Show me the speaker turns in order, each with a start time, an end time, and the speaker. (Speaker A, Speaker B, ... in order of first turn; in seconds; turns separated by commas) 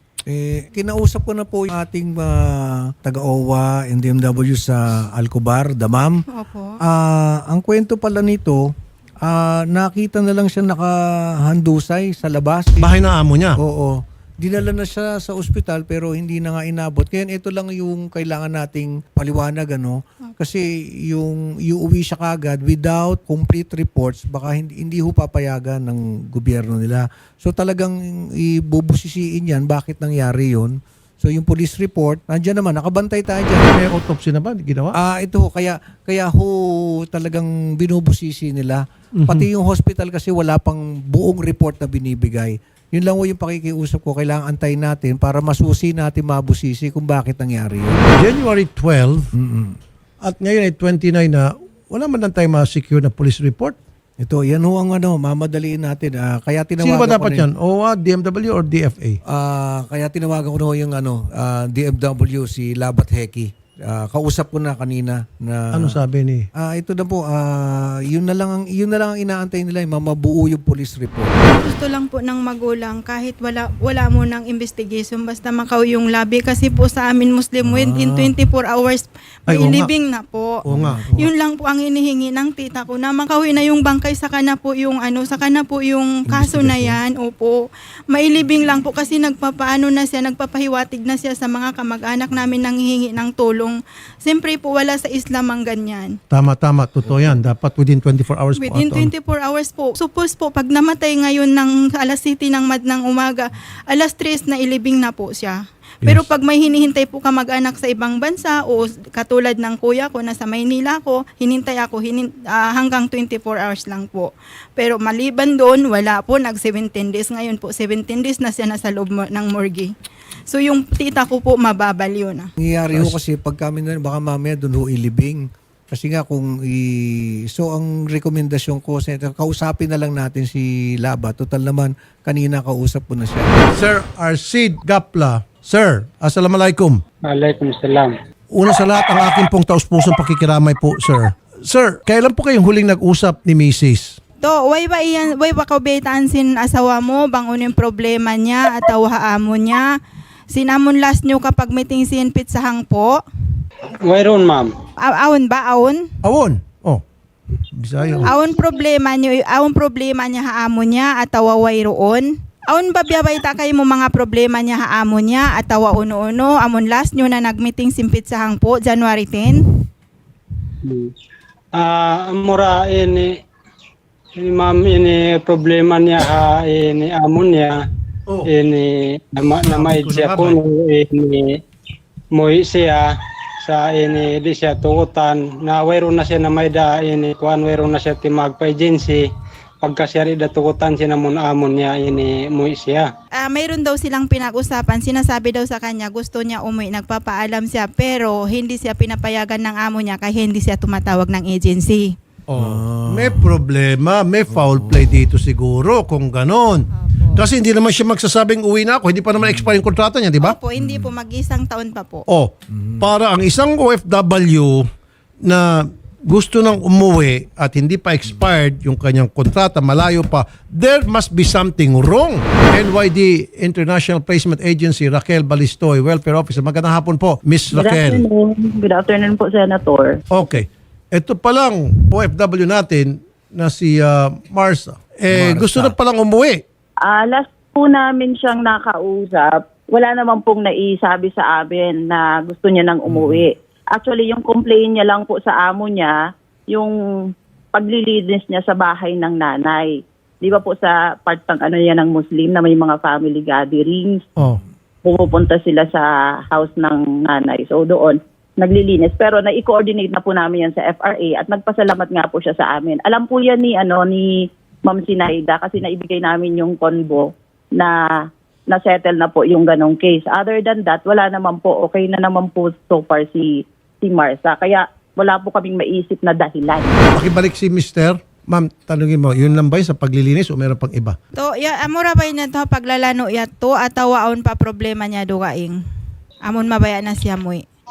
Speaker A: 0.3-6.2, Speaker B: 6.3-6.8, Speaker A: 6.8-8.7, Speaker A: 9.2-13.0, Speaker C: 12.8-13.6, Speaker A: 13.6-33.7, Speaker C: 33.7-35.0, Speaker A: 35.0-48.0, Speaker C: 39.2-39.5, Speaker C: 48.1-49.3, Speaker A: 49.4-49.8, Speaker C: 50.2-53.8, Speaker A: 54.2-57.5, Speaker C: 56.8-59.2, Speaker A: 59.3-66.0, Speaker C: 65.7-66.5, Speaker A: 66.5-71.3, Speaker B: 71.5-80.6, Speaker A: 77.6-78.3, Speaker C: 79.5-79.9, Speaker C: 80.6-81.3, Speaker A: 80.7-81.1, Speaker B: 81.2-96.2, Speaker C: 86.3-87.0, Speaker C: 96.3-99.1, Speaker B: 98.6-119.9, Speaker B: 120.5-122.5, Speaker A: 122.6-133.5, Speaker C: 133.7-137.0, Speaker D: 137.3-138.1, Speaker C: 138.5-144.2, Speaker B: 144.4-149.9, Speaker B: 150.5-153.2, Speaker D: 154.0-154.7, Speaker B: 155.0-156.1, Speaker C: 156.2-157.0, Speaker C: 157.8-158.3, Speaker B: 158.2-169.7, Speaker D: 170.8-171.1, Speaker D: 171.8-173.4, Speaker D: 174.4-177.8, Speaker D: 178.4-181.6, Speaker C: 179.7-180.6, Speaker D: 182.3-189.2, Speaker D: 189.8-193.1, Speaker B: 193.4-202.2, Speaker C: 202.5-210.6, Speaker A: 202.6-203.6, Speaker A: 204.5-205.3, Speaker B: 206.9-207.4, Speaker A: 209.4-209.9, Speaker B: 210.4-212.3, Speaker A: 210.8-211.1, Speaker C: 212.3-214.9, Speaker A: 212.7-213.0, Speaker C: 215.4-228.2, Speaker E: 227.7-230.2, Speaker C: 230.3-236.6, Speaker A: 235.3-236.0, Speaker E: 237.0-246.2, Speaker A: 243.1-243.5, Speaker E: 247.7-254.2, Speaker E: 255.0-267.9, Speaker E: 268.7-273.5, Speaker E: 274.0-276.9, Speaker C: 277.1-281.2, Speaker B: 281.4-285.8, Speaker B: 286.4-287.6